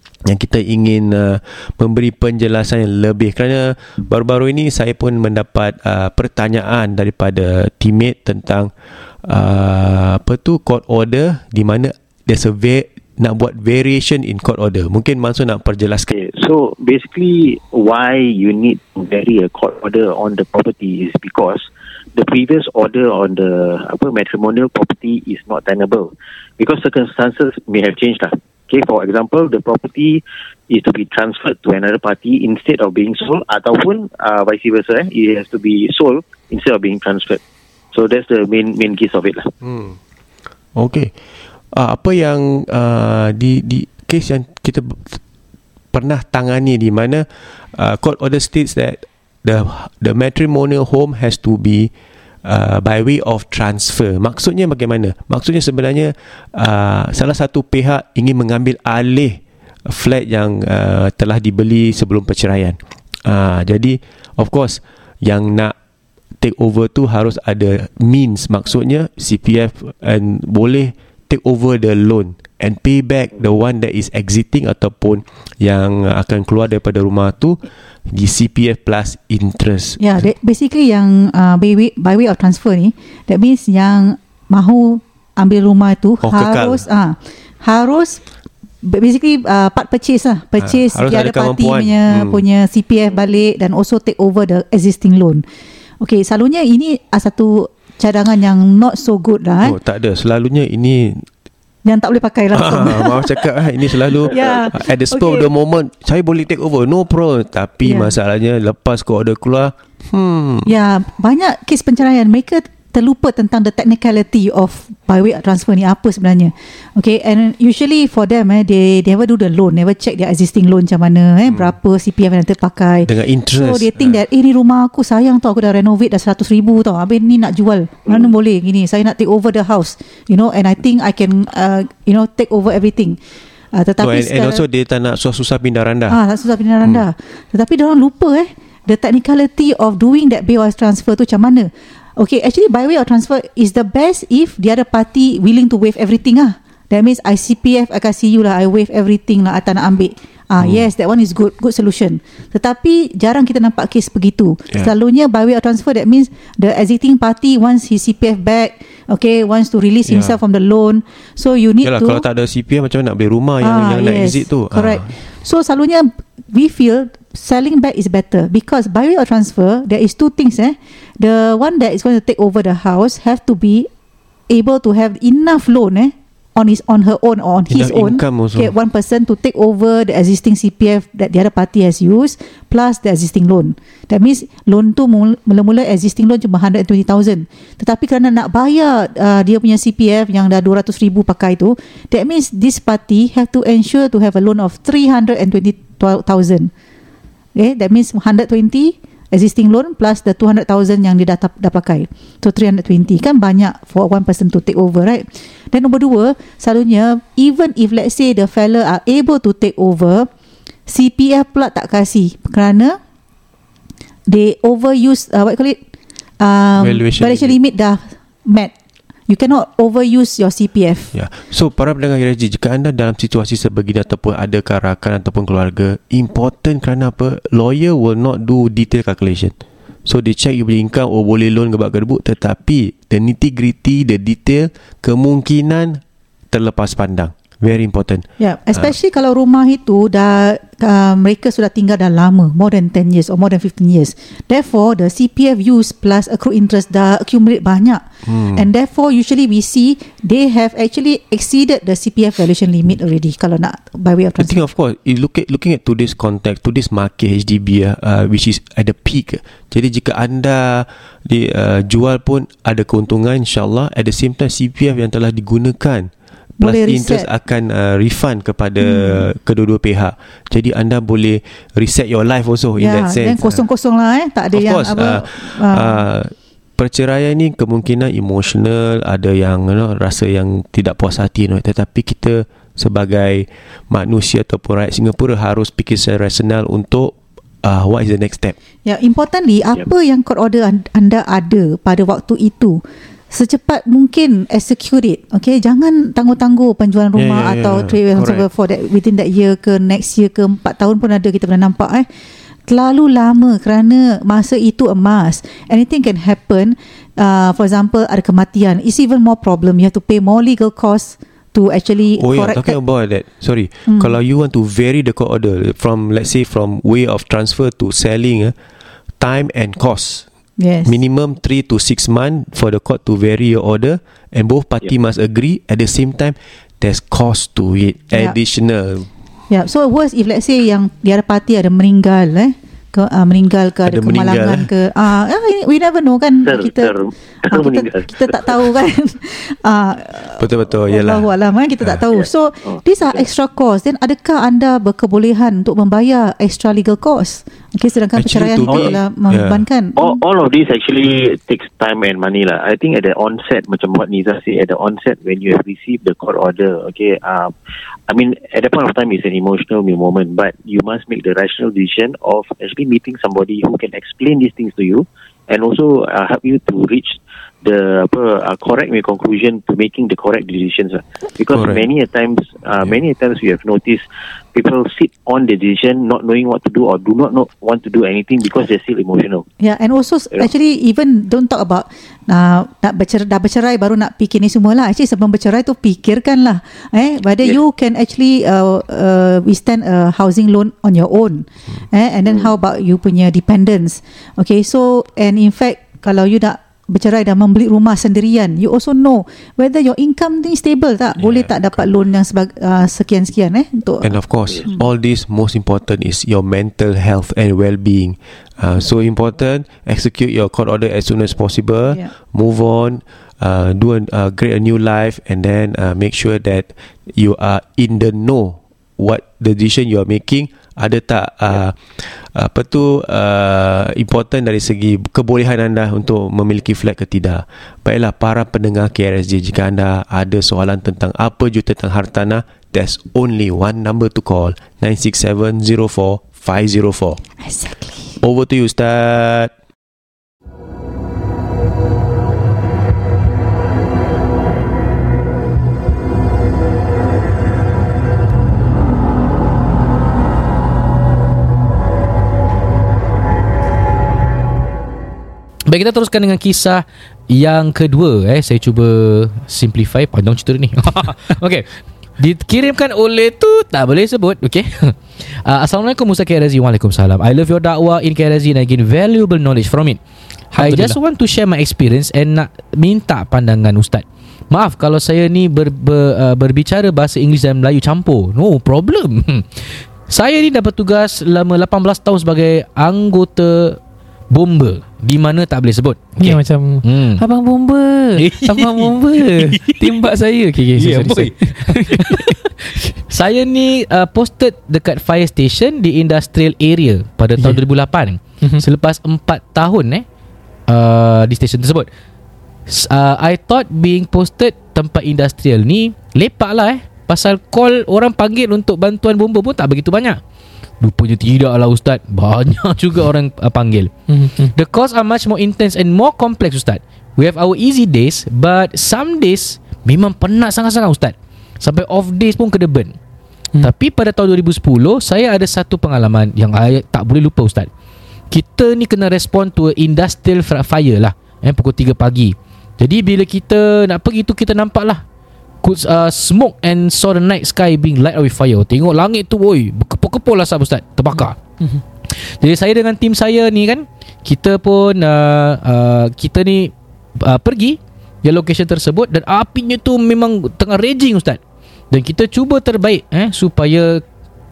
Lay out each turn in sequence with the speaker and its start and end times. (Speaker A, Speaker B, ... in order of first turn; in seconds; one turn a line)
Speaker A: 0.2-8.7
Speaker A: 9.2-16.1
Speaker B: 16.1-37.4
Speaker B: 37.9-39.5
Speaker A: 39.6-39.9
Speaker A: 40.7-41.1
Speaker A: 41.7-45.2
Speaker A: 45.9-51.9
Speaker A: 52.4-65.7
Speaker A: 66.4-80.3
Speaker C: 80.0-88.2
Speaker A: 86.2-86.8
Speaker C: 88.8-95.4
Speaker A: 90.6-92.4
Speaker C: 96.0-99.8
Speaker A: 99.6-101.3
Speaker C: 101.8-103.5
Speaker A: 102.5-110.7
Speaker C: 104.0-105.5
Speaker C: 107.8-108.1
Speaker C: 110.6-133.2
Speaker A: 121.5-121.7
Speaker A: 123.0-124.2
Speaker C: 133.7-134.6
Speaker A: 134.0-136.2
Speaker C: 136.1-162.2
Speaker A: 150.6-150.9
Speaker A: 160.1-160.4
Speaker A: 161.8-165.1
Speaker C: 163.6-173.9
Speaker C: 174.5-196.7
Speaker A: 177.7-178.7
Speaker C: 197.5-210.3
Speaker C: 210.9-213.0
Speaker C: 214.3-215.8
Speaker C: 216.4-218.7
Speaker A: 216.8-217.5
Speaker C: 219.3-221.1
Speaker A: 221.1-229.5
Speaker A: 230.1-238.9
Speaker C: 238.4-254.6
Speaker A: 248.2-248.7
Speaker A: 254.4-273.6
Speaker C: 266.6-267.3
Speaker C: 268.8-269.2
Speaker C: 272.8-276.0
Speaker A: 274.5-288.6
Speaker C: 288.8-302.1
Speaker A: 297.1-298.5
Speaker C: 302.7-312.8
Speaker A: 312.1-318.5
Speaker C: 313.9-314.1
Speaker A: 319.2-320.2
Speaker C: 320.6-321.0
Speaker A: 320.8-329.1
Speaker C: 329.5-350.2
Speaker A: 333.8-334.7
Speaker B: 336.4-338.7
Speaker A: 340.4-341.3
Speaker B: 342.1-343.2
Speaker A: 348.1-349.6
Speaker B: 348.7-348.9
Speaker B: 350.0-357.5
Speaker B: 358.1-379.4
Speaker A: 371.5-371.9
Speaker C: 379.6-404.8
Speaker B: 392.2-392.5
Speaker A: 401.2-401.8
Speaker A: 404.0-437.2
Speaker C: 437.4-438.1
Speaker A: 438.2-439.5
Speaker D: 455.7-461.7
Speaker D: 462.2-470.0
Speaker E: 470.5-471.0
Speaker D: 470.5-483.8
Speaker D: 484.3-487.2
Speaker E: 486.2-492.9
Speaker D: 488.2-490.0
Speaker D: 490.8-492.4
Speaker D: 493.0-500.0
Speaker D: 500.7-501.9
Speaker D: 502.7-510.2
Speaker D: 510.8-522.9
Speaker E: 514.1-514.5
Speaker D: 523.6-527.7
Speaker D: 528.3-535.0
Speaker D: 535.6-541.4
Speaker E: 541.1-541.8
Speaker D: 542.1-551.4
Speaker D: 551.9-554.0